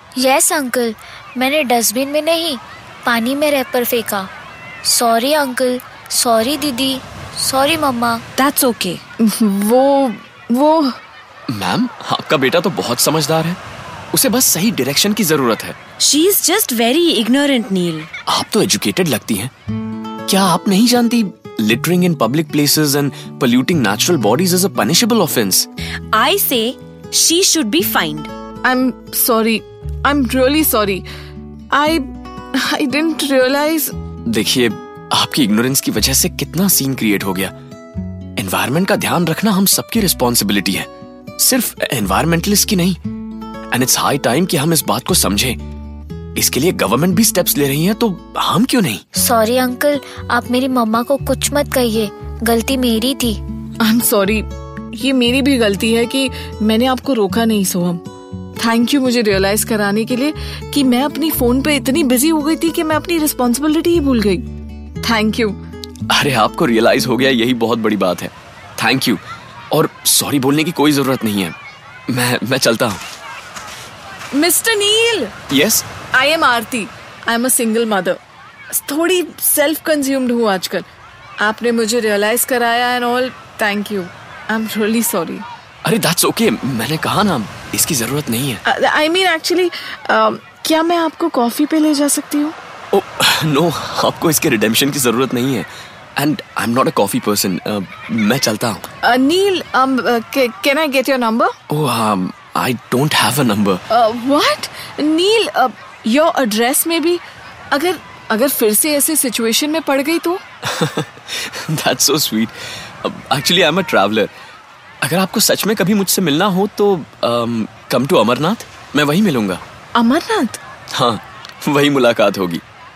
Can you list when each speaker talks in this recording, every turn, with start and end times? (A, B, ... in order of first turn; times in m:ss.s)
0:00.2-0:04.3 A
0:04.8-0:08.2 A
0:08.4-0:09.0 B
0:09.2-0:11.0 C
0:11.5-0:13.6 D
0:14.1-0:15.8 D
0:16.0-0:18.1 B
0:18.3-0:19.5 D
0:20.3-0:25.7 D
0:26.1-0:28.3 B
0:28.6-0:31.0 C
0:31.7-0:34.0 C
0:34.3-0:37.5 D
0:38.4-0:43.0 D
0:43.7-0:45.6 D
0:46.4-0:49.0 D
0:49.2-0:53.4 A
0:53.8-0:58.0 C
0:58.6-1:04.5 C
1:05.0-1:05.6 C
1:06.1-1:09.2 D
1:09.7-1:11.6 D
1:12.1-1:13.0 D
1:14.3-1:15.3 C
1:15.5-1:15.9 D
1:16.1-1:18.2 C
1:18.7-1:20.9 C
1:21.4-1:25.4 C
1:25.9-1:28.6 D
1:28.7-1:32.6 C
1:32.9-1:38.8 D
1:39.0-1:41.5 C
1:41.7-1:43.8 D
1:43.9-1:50.4 C
1:50.7-1:54.3 D
1:55.0-1:59.6 D
2:00.0-2:00.6 C
2:00.9-2:02.6 D